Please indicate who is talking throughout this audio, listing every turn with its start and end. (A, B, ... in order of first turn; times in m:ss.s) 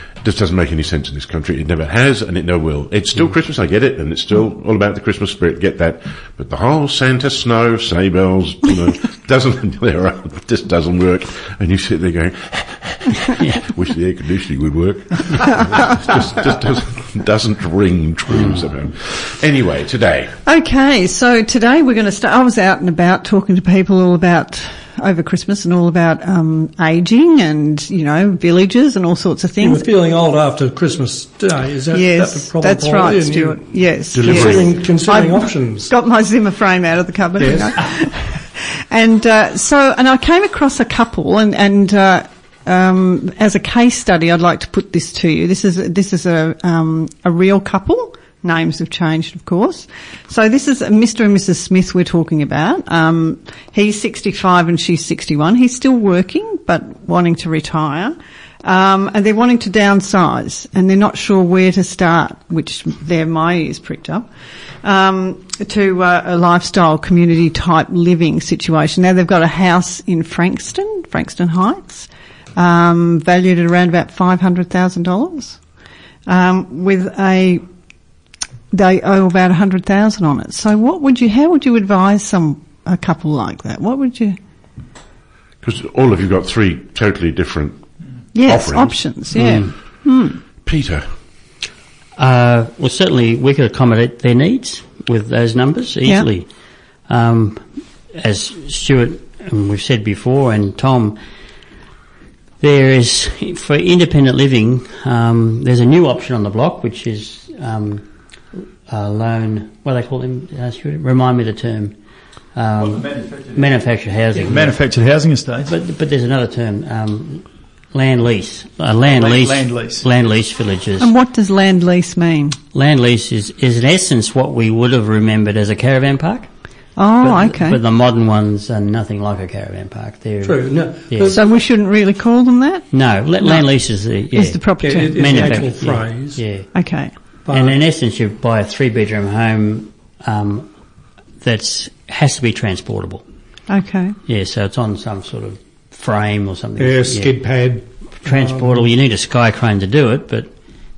0:00.2-0:20.3 A
0:18.3-0:18.7 B
0:20.4-0:29.9 C
0:29.6-0:35.9 D
0:31.9-1:04.3 C
0:34.1-0:34.8 A
0:37.4-0:37.8 D
1:04.8-1:15.6 C
1:16.3-1:17.6 C
1:18.7-1:24.4 C
1:25.6-1:27.8 A
1:28.3-1:30.4 C
1:28.4-1:29.0 A
1:29.3-1:29.7 B
1:30.6-1:31.1 A
1:32.2-1:36.5 B
1:37.1-1:41.2 B
1:42.6-1:48.0 B
1:48.9-1:51.9 B
1:52.5-1:54.8 B
1:52.8-1:53.8 E
1:54.4-1:55.7 E
1:55.7-2:01.1 B
1:59.0-2:00.1 E
2:01.0-2:02.6 C
2:02.7-2:06.5 B
2:07.0-2:07.8 C
2:07.2-2:11.3 B
2:10.4-2:11.4 D
2:11.3-2:12.8 C
2:12.9-2:16.7 B
2:14.3-2:15.7 C
2:14.8-2:16.4 D
2:16.7-2:17.1 C
2:17.5-2:17.8 D
2:17.5-2:20.7 B
2:21.4-2:23.2 B
2:23.7-2:24.2 C
2:24.3-2:27.3 B
2:26.8-2:28.9 D
2:28.2-2:30.5 B